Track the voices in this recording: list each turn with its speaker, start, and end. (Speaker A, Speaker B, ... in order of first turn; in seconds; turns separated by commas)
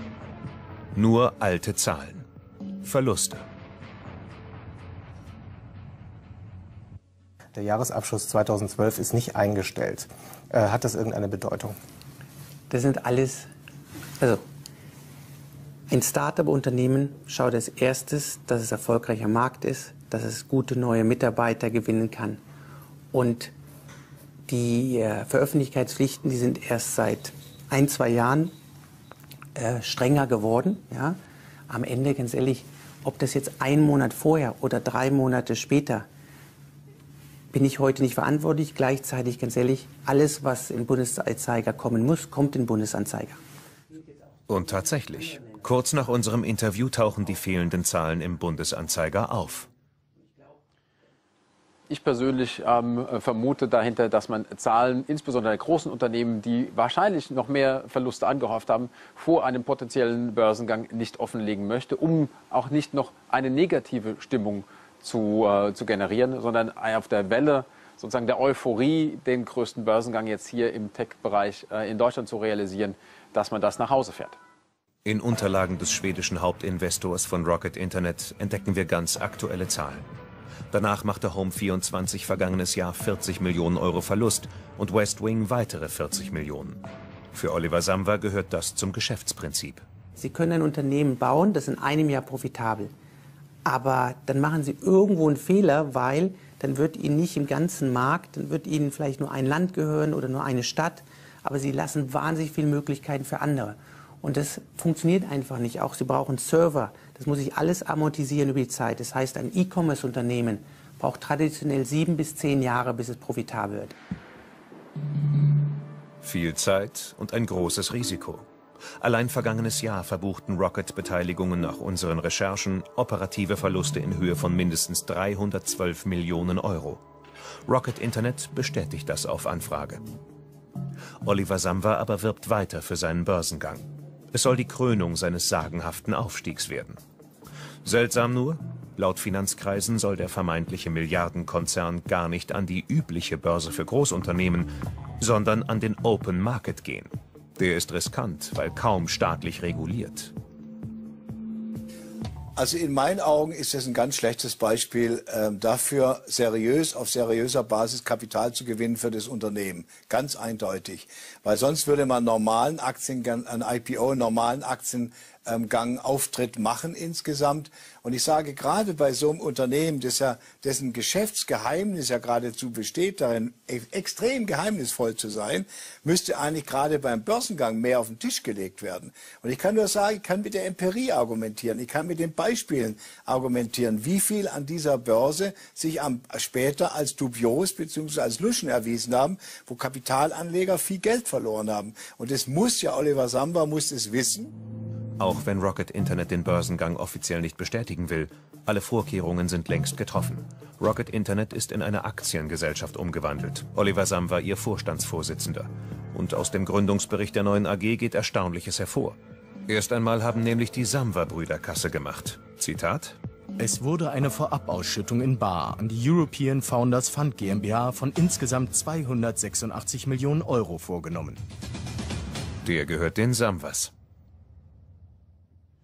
Speaker A: 0.9-2.2, Speaker A: 2.8-3.4, Speaker B: 7.5-11.8, Speaker C: 12.7-13.5, Speaker C: 15.9-22.4, Speaker C: 23.1-23.5, Speaker C: 24.5-28.5, Speaker C: 29.6-31.2, Speaker C: 31.7-36.0, Speaker C: 37.5-43.4, Speaker A: 44.5-49.7, Speaker D: 51.9-74.4, Speaker A: 75.0-80.1, Speaker A: 80.7-89.8, Speaker C: 90.2-92.9, Speaker C: 93.6-114.0, Speaker A: 116.2-118.5, Speaker A: 119.0-127.0, Speaker A: 127.7-130.0, Speaker A: 131.2-137.0, Speaker A: 137.8-150.3, Speaker E: 152.6-194.5, Speaker A: 195.2-213.2, Speaker F: 213.6-221.4, Speaker A: 222.6-223.9